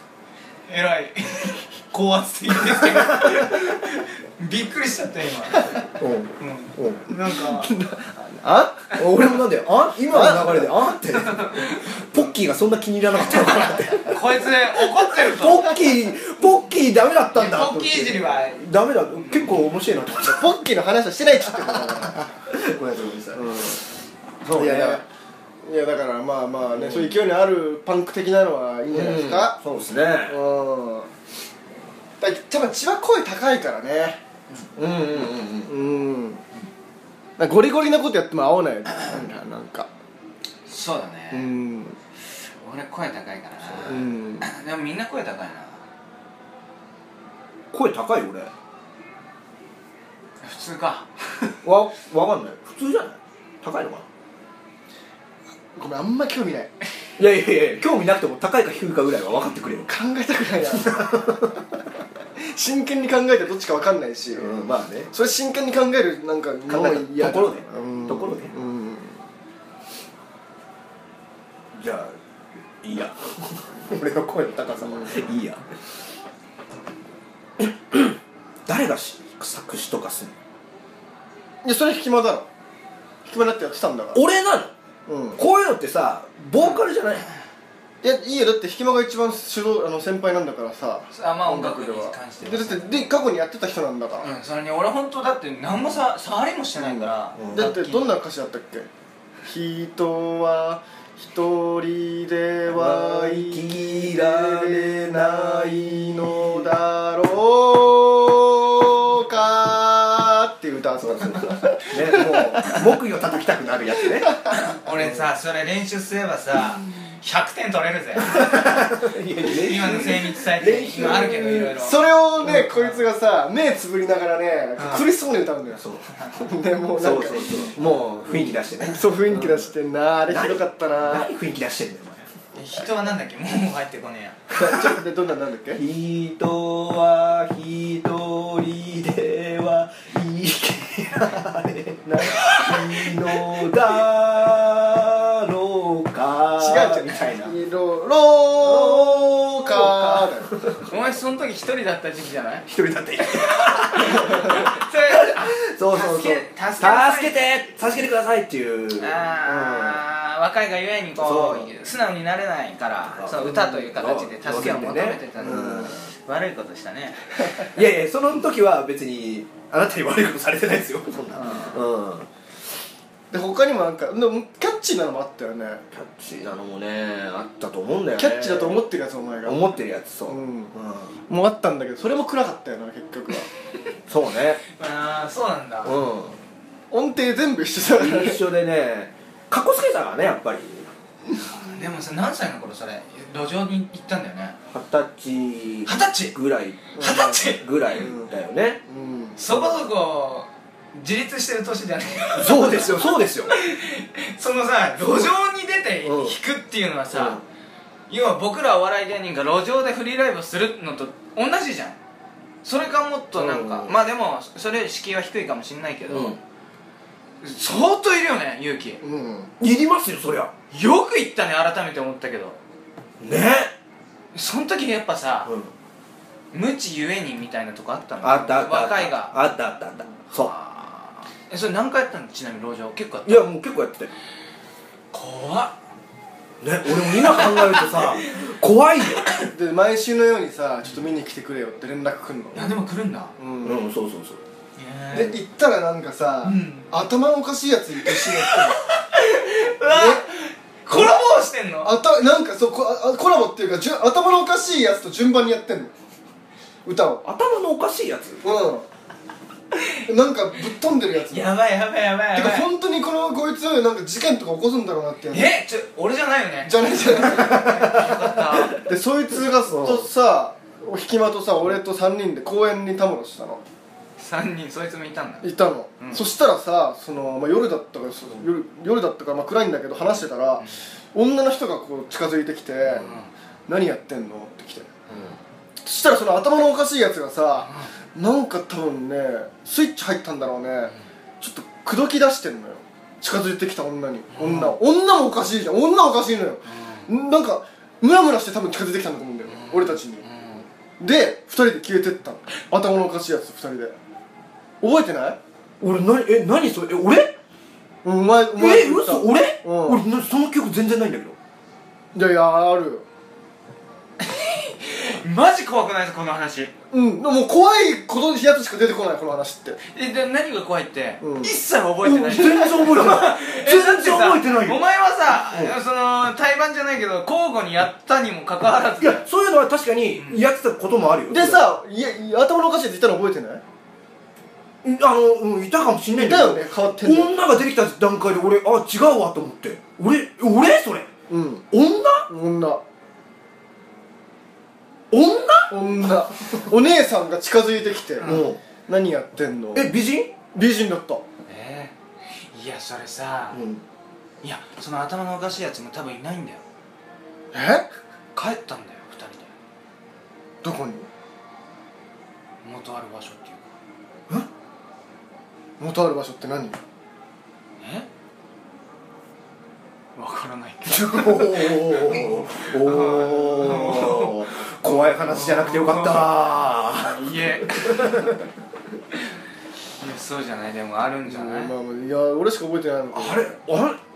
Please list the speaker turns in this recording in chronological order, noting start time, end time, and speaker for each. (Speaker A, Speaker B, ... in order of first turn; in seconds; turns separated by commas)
Speaker A: 0.7-5.8, Speaker B: 6.0-7.0, Speaker A: 6.4-7.7, Speaker C: 7.1-9.0, Speaker B: 8.9-14.2, Speaker C: 10.1-10.8, Speaker A: 11.2-11.8, Speaker A: 13.2-15.8, Speaker B: 15.0-20.6, Speaker A: 17.3-19.6, Speaker C: 20.2-22.2, Speaker B: 21.8-23.9, Speaker B: 24.4-25.0, Speaker C: 24.5-25.1, Speaker C: 25.6-29.6, Speaker B: 26.6-27.2, Speaker B: 28.9-30.4, Speaker C: 30.3-31.1, Speaker C: 32.2-34.2, Speaker B: 34.8-35.7, Speaker C: 35.1-36.4, Speaker C: 37.4-39.9, Speaker A: 40.7-41.5, Speaker C: 41.3-42.0, Speaker A: 42.6-45.8, Speaker C: 43.8-44.5, Speaker B: 47.7-48.5, Speaker A: 50.4-51.1, Speaker B: 51.6-54.0, Speaker C: 55.8-56.7, Speaker B: 57.2-59.9, Speaker C: 59.9-61.6, Speaker B: 60.7-61.5, Speaker C: 62.4-64.6, Speaker B: 64.4-65.1, Speaker C: 65.1-69.2, Speaker B: 66.7-68.5, Speaker B: 71.7-72.2, Speaker B: 72.8-75.6, Speaker C: 74.8-75.3, Speaker B: 77.6-78.2, Speaker B: 78.7-80.3, Speaker C: 81.6-82.5, Speaker C: 83.3-84.2, Speaker B: 84.1-84.7, Speaker C: 85.1-85.4, Speaker B: 85.4-87.3, Speaker A: 86.6-86.8, Speaker C: 88.0-94.3, Speaker A: 91.1-93.1, Speaker A: 94.2-98.2, Speaker C: 96.8-98.9, Speaker B: 97.4-97.7, Speaker C: 99.5-112.8, Speaker B: 102.7-106.7, Speaker B: 111.0-114.3, Speaker C: 114.2-114.5, Speaker A: 114.5-118.8, Speaker B: 118.2-121.7, Speaker A: 119.5-123.0, Speaker C: 121.0-125.8, Speaker B: 124.8-125.1, Speaker B: 125.8-126.0, Speaker A: 126.2-126.4, Speaker C: 126.4-131.3, Speaker B: 127.0-129.7, Speaker B: 130.3-132.3, Speaker A: 132.5-134.4, Speaker B: 134.5-135.0, Speaker C: 134.5-135.8, Speaker B: 135.8-147.5, Speaker A: 142.2-143.4, Speaker C: 146.6-150.5, Speaker B: 148.6-150.8, Speaker A: 150.9-152.7, Speaker B: 152.7-160.0, Speaker A: 153.2-157.7, Speaker A: 159.0-167.6, Speaker B: 161.2-161.7, Speaker B: 163.2-166.0, Speaker C: 164.6-164.9, Speaker C: 165.4-165.9, Speaker B: 167.7-172.3, Speaker C: 173.3-175.8, Speaker B: 175.9-178.8, Speaker C: 178.2-179.6, Speaker B: 179.4-181.2, Speaker C: 180.3-180.7, Speaker C: 181.3-183.5, Speaker B: 184.1-184.6, Speaker A: 184.8-186.0, Speaker B: 185.8-186.4, Speaker C: 186.9-188.4, Speaker B: 187.9-190.9, Speaker A: 191.6-194.6, Speaker B: 194.7-198.8, Speaker A: 195.9-196.3, Speaker C: 197.0-198.3, Speaker A: 197.0-198.1, Speaker C: 198.9-199.4, Speaker A: 199.4-207.4, Speaker B: 202.4-203.6, Speaker B: 206.0-206.4, Speaker B: 207.1-207.4, Speaker A: 208.1-212.0, Speaker A: 212.6-216.4, Speaker B: 213.4-214.0, Speaker B: 216.1-216.4, Speaker A: 217.4-219.0, Speaker C: 219.0-219.5, Speaker B: 219.6-220.5, Speaker A: 220.7-222.6, Speaker B: 223.2-223.7, Speaker A: 224.3-225.5, Speaker B: 225.5-225.7, Speaker A: 226.5-229.4, Speaker B: 228.2-230.5, Speaker A: 230.3-233.5, Speaker B: 233.2-234.1, Speaker A: 235.1-235.7, Speaker B: 236.6-239.5, Speaker A: 236.9-238.4, Speaker C: 239.5-242.8, Speaker A: 242.5-243.3, Speaker C: 243.4-243.9, Speaker B: 243.6-244.4, Speaker A: 244.8-245.4, Speaker C: 245.1-248.8, Speaker A: 246.4-247.1, Speaker A: 248.1-251.9, Speaker C: 249.8-250.3, Speaker C: 250.9-255.9, Speaker C: 256.9-257.3, Speaker B: 257.2-258.4, Speaker C: 258.4-258.9, Speaker C: 260.1-261.5, Speaker A: 261.3-262.7, Speaker C: 262.3-265.5, Speaker A: 265.3-268.8, Speaker C: 266.6-268.0, Speaker C: 268.6-273.6, Speaker B: 269.6-270.1, Speaker A: 274.2-275.5, Speaker C: 275.4-283.2, Speaker A: 276.0-276.2, Speaker A: 282.9-283.3, Speaker C: 283.7-284.9, Speaker C: 285.8-300.2, Speaker A: 294.3-294.8, Speaker A: 296.7-297.1, Speaker A: 299.5-300.7, Speaker C: 301.0-303.9, Speaker C: 304.8-305.4, Speaker B: 305.8-307.4, Speaker C: 308.0-310.0, Speaker B: 308.6-311.4, Speaker C: 312.1-313.1, Speaker A: 314.2-316.7, Speaker C: 316.9-319.8, Speaker A: 319.9-329.3, Speaker C: 321.2-321.5, Speaker B: 322.0-324.8, Speaker C: 322.4-323.1, Speaker B: 325.5-325.8, Speaker B: 329.0-331.6, Speaker A: 330.2-330.4, Speaker C: 331.3-333.6, Speaker B: 334.8-341.1, Speaker C: 336.2-337.4, Speaker C: 341.3-341.7, Speaker B: 341.7-342.3, Speaker C: 342.3-342.8, Speaker B: 345.1-345.7, Speaker C: 345.7-349.9, Speaker B: 348.2-348.6, Speaker B: 349.8-350.3, Speaker C: 350.5-351.2, Speaker A: 351.5-353.6, Speaker B: 353.5-353.8, Speaker A: 354.4-356.6, Speaker C: 357.5-357.9, Speaker A: 358.4-359.5, Speaker C: 360.6-361.1, Speaker A: 362.6-363.7, Speaker C: 365.8-366.8, Speaker A: 367.8-368.1, Speaker A: 370.2-378.3, Speaker B: 370.9-378.4, Speaker A: 380.0-381.7, Speaker C: 381.2-383.5, Speaker B: 383.1-384.0